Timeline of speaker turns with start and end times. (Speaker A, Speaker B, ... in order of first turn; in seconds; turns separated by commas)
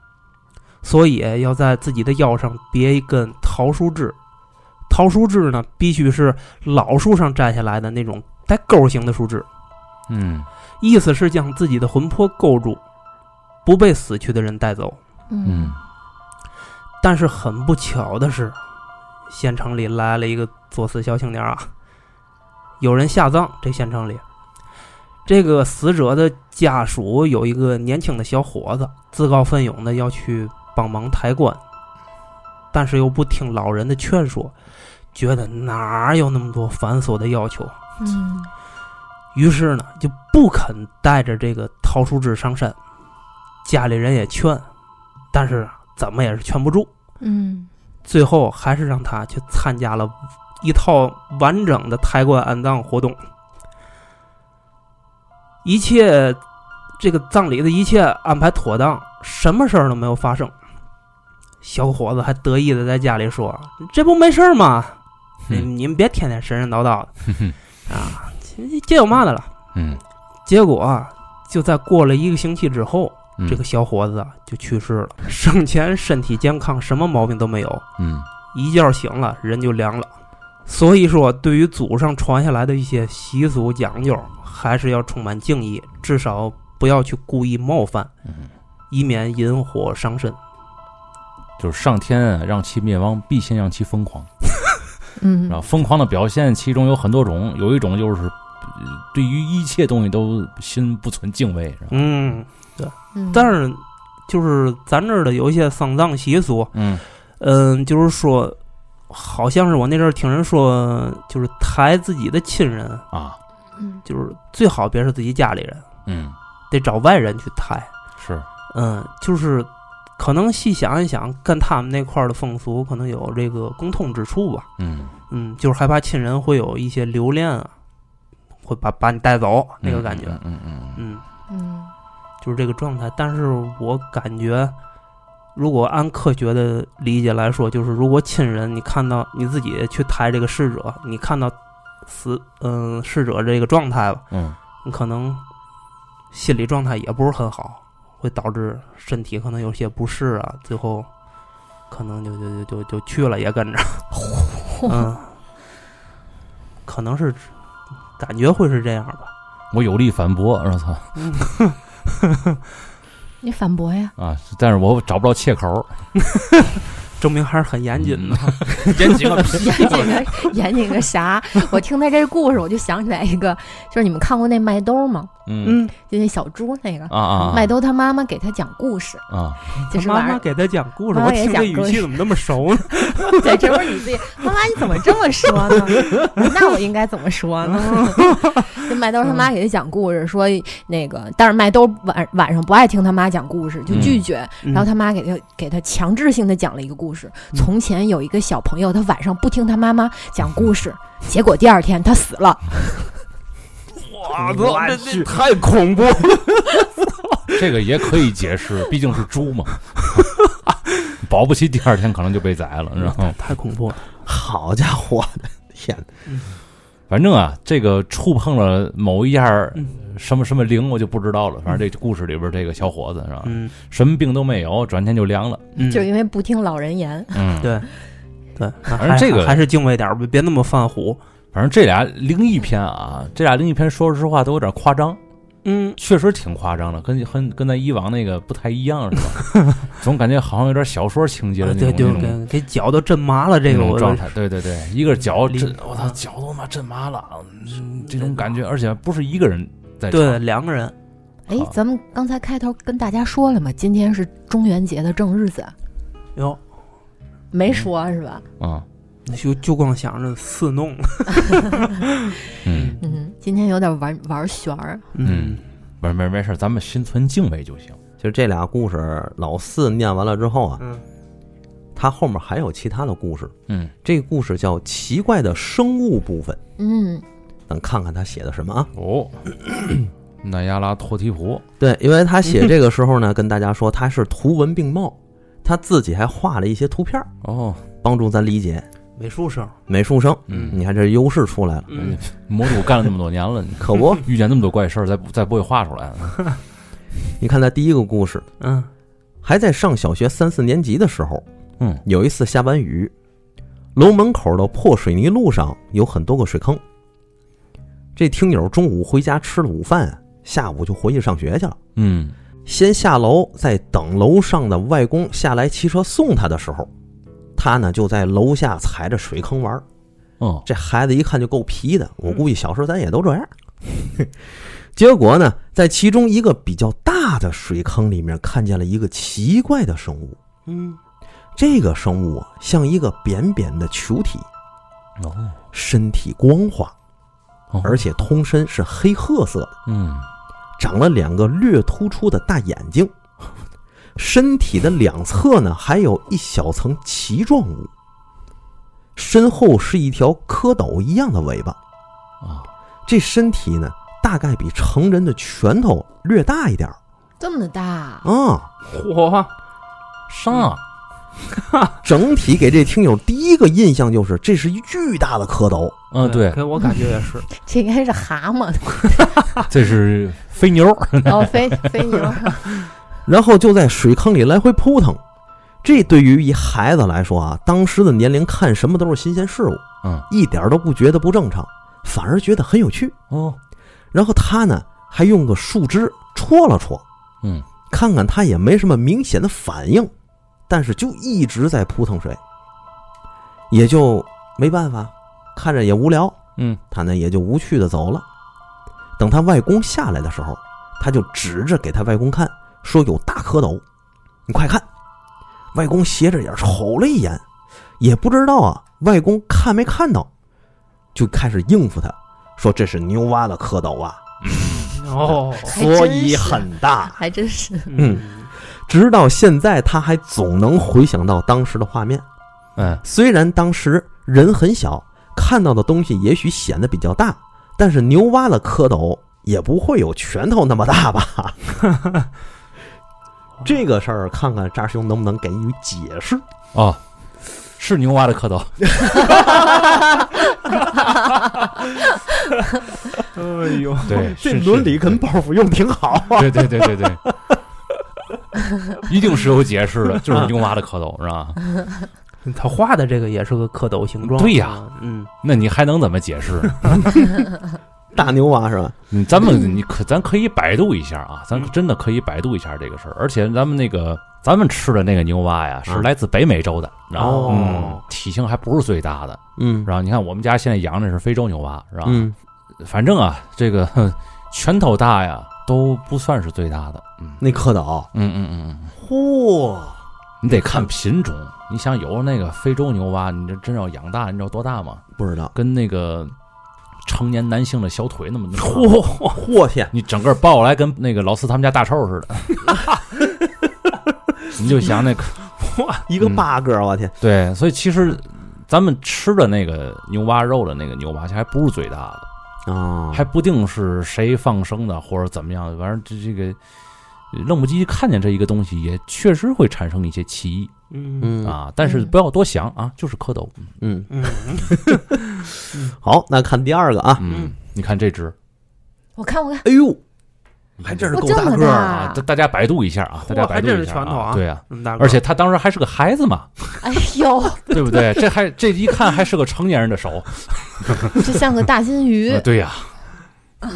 Speaker A: 0.8-4.2, Speaker A: 4.9-9.5, Speaker B: 10.1-10.5, Speaker A: 10.8-12.8, Speaker A: 13.6-15.0, Speaker C: 15.3-15.8, Speaker B: 15.4-15.8, Speaker A: 17.0-18.6, Speaker A: 19.3-21.7, Speaker A: 22.8-24.2, Speaker A: 25.2-31.6, Speaker A: 32.7-34.5, Speaker A: 35.1-37.8, Speaker C: 38.0-38.5, Speaker A: 39.3-42.8, Speaker A: 43.6-44.6, Speaker A: 45.3-46.9, Speaker C: 47.2-47.7, Speaker A: 48.0-53.2, Speaker A: 55.6-56.4, Speaker A: 57.0-60.5, Speaker A: 61.6-65.0, Speaker A: 65.5-67.3, Speaker A: 67.9-69.5, Speaker B: 69.7-70.0, Speaker A: 70.5-77.8, Speaker B: 78.0-78.2, Speaker A: 78.5-80.1, Speaker A: 80.7-88.1, Speaker A: 88.9-90.4, Speaker B: 91.6-94.3, Speaker C: 95.2-95.6, Speaker B: 95.5-102.0, Speaker A: 101.9-106.7, Speaker C: 103.1-103.5, Speaker B: 106.7-107.0, Speaker A: 107.4-108.6, Speaker A: 109.1-113.0, Speaker B: 113.1-113.4, Speaker A: 114.0-115.8, Speaker B: 116.0-116.3, Speaker A: 116.7-117.9, Speaker B: 118.2-118.5, Speaker A: 118.7-124.7, Speaker B: 124.8-125.1, Speaker A: 125.3-127.7, Speaker A: 128.6-130.4, Speaker B: 129.8-131.0, Speaker A: 130.9-131.2, Speaker C: 131.5-131.9, Speaker A: 132.4-134.7, Speaker A: 135.5-141.5, Speaker A: 142.1-144.2, Speaker B: 144.3-144.6, Speaker A: 144.8-145.4, Speaker A: 146.3-151.1, Speaker A: 151.9-154.1, Speaker C: 154.1-155.1, Speaker A: 154.8-155.3, Speaker A: 156.8-157.5, Speaker A: 158.2-159.3, Speaker B: 159.7-161.2, Speaker A: 161.2-162.6, Speaker C: 163.4-164.1, Speaker B: 164.2-165.9, Speaker A: 166.2-170.1, Speaker B: 168.0-170.2, Speaker C: 169.3-175.3, Speaker B: 175.4-175.8, Speaker A: 175.6-175.9, Speaker C: 175.9-180.4, Speaker B: 177.1-177.8, Speaker B: 179.3-179.6, Speaker A: 179.8-183.8, Speaker C: 181.1-182.3, Speaker C: 183.1-203.2, Speaker A: 187.7-188.6, Speaker B: 193.9-194.2, Speaker A: 194.6-194.9, Speaker A: 204.0-206.2, Speaker D: 204.3-206.8, Speaker B: 207.5-210.3, Speaker B: 211.1-213.4, Speaker A: 213.0-214.0, Speaker D: 214.2-216.1, Speaker A: 216.2-216.5, Speaker B: 217.1-225.6, Speaker A: 223.4-223.7, Speaker A: 225.8-226.1, Speaker C: 225.9-227.5, Speaker B: 227.3-227.7, Speaker A: 227.6-227.9, Speaker A: 228.6-231.2, Speaker B: 229.0-229.6, Speaker B: 231.5-235.2, Speaker A: 235.6-236.0, Speaker B: 236.0-242.4, Speaker A: 241.6-244.3, Speaker B: 243.7-250.4, Speaker A: 245.1-246.2, Speaker A: 247.8-248.5, Speaker A: 250.1-250.9, Speaker C: 251.5-255.7, Speaker C: 257.5-258.4, Speaker B: 258.6-258.9, Speaker A: 259.2-263.1, Speaker B: 262.6-263.0, Speaker C: 263.0-265.1, Speaker A: 265.1-265.6, Speaker B: 265.2-268.0, Speaker D: 268.2-270.8, Speaker D: 271.9-276.6, Speaker B: 273.7-273.9, Speaker C: 276.8-277.2, Speaker D: 277.7-278.9, Speaker B: 278.9-279.4, Speaker B: 280.4-281.6, Speaker D: 281.8-287.3, Speaker B: 287.4-287.8, Speaker D: 288.0-288.9, Speaker A: 289.2-289.8, Speaker D: 289.9-291.9, Speaker B: 290.5-290.8, Speaker A: 290.5-290.8, Speaker A: 291.9-292.2, Speaker B: 291.9-296.5, Speaker D: 293.8-294.2, Speaker D: 297.4-298.4, Speaker A: 298.6-298.9, Speaker D: 299.4-301.4, Speaker D: 302.0-303.1, Speaker D: 303.9-306.8, Speaker D: 308.1-311.8, Speaker B: 311.9-312.3, Speaker D: 312.6-316.9, Speaker D: 317.6-319.8, Speaker B: 320.4-320.6, Speaker D: 320.6-324.3, Speaker D: 324.9-330.4, Speaker A: 330.6-331.0, Speaker D: 331.6-334.5, Speaker B: 335.2-335.6, Speaker D: 335.7-336.9, Speaker B: 337.7-338.0, Speaker D: 337.8-339.8, Speaker B: 339.9-340.2, Speaker D: 340.8-343.1, Speaker D: 344.1-347.9, Speaker D: 349.1-351.8, Speaker B: 352.4-352.7, Speaker D: 353.1-357.0, Speaker C: 357.4-358.3, Speaker D: 358.2-358.7, Speaker A: 358.9-359.5, Speaker B: 360.3-360.8, Speaker A: 361.6-361.9, Speaker D: 362.0-366.0, Speaker B: 366.1-366.6, Speaker A: 366.2-367.5, Speaker C: 367.5-369.5, Speaker B: 369.6-371.8, Speaker C: 371.2-372.7, Speaker D: 373.3-375.2, Speaker D: 375.8-383.1, Speaker B: 383.3-383.6, Speaker D: 384.1-387.0, Speaker D: 387.9-390.1, Speaker D: 390.7-392.4, Speaker D: 393.7-396.4, Speaker D: 396.9-398.2, Speaker D: 399.2-403.8, Speaker D: 404.5-404.9, Speaker D: 405.7-407.4, Speaker D: 408.0-410.3, Speaker D: 411.1-414.2, Speaker B: 414.4-415.0, Speaker A: 414.9-415.8, Speaker C: 415.6-418.0, Speaker D: 415.6-417.2, Speaker A: 417.9-418.5, Speaker D: 417.9-422.2, Speaker B: 422.8-423.0, Speaker D: 423.0-431.8, Speaker D: 433.6-436.4, Speaker B: 436.7-437.0, Speaker B: 437.6-439.6, Speaker D: 439.0-440.0, Speaker A: 443.3-444.2, Speaker B: 444.1-445.2, Speaker D: 444.1-447.5, Speaker B: 446.3-447.2, Speaker B: 448.9-451.6, Speaker D: 450.2-450.5, Speaker A: 452.4-455.3, Speaker B: 454.2-454.8, Speaker B: 455.4-457.3, Speaker D: 458.1-458.9, Speaker B: 459.1-477.4, Speaker C: 459.4-459.8, Speaker D: 467.1-468.0, Speaker A: 467.2-467.9, Speaker D: 469.6-469.9, Speaker D: 472.0-472.3, Speaker D: 477.4-478.1, Speaker B: 478.1-478.9, Speaker D: 478.9-480.0, Speaker B: 480.4-486.3, Speaker D: 485.2-485.5, Speaker B: 487.0-489.1, Speaker A: 488.6-489.4, Speaker D: 489.3-489.9, Speaker B: 489.9-492.8, Speaker B: 494.5-495.4, Speaker A: 495.6-496.0, Speaker D: 496.1-497.1, Speaker B: 496.2-496.4, Speaker B: 497.2-502.2, Speaker D: 502.6-503.3, Speaker B: 503.1-506.6, Speaker B: 507.3-510.7, Speaker A: 510.9-511.3, Speaker D: 511.2-511.6, Speaker B: 511.4-513.7, Speaker C: 511.8-512.1, Speaker D: 513.8-517.2, Speaker A: 514.1-515.0, Speaker B: 517.2-518.3, Speaker A: 517.2-517.5, Speaker C: 519.1-519.7, Speaker D: 519.6-520.0, Speaker B: 520.8-526.7, Speaker D: 520.8-522.0, Speaker C: 521.1-522.2, Speaker A: 523.2-525.2, Speaker C: 526.8-528.2, Speaker B: 527.7-531.1, Speaker C: 531.1-532.5, Speaker B: 532.3-533.0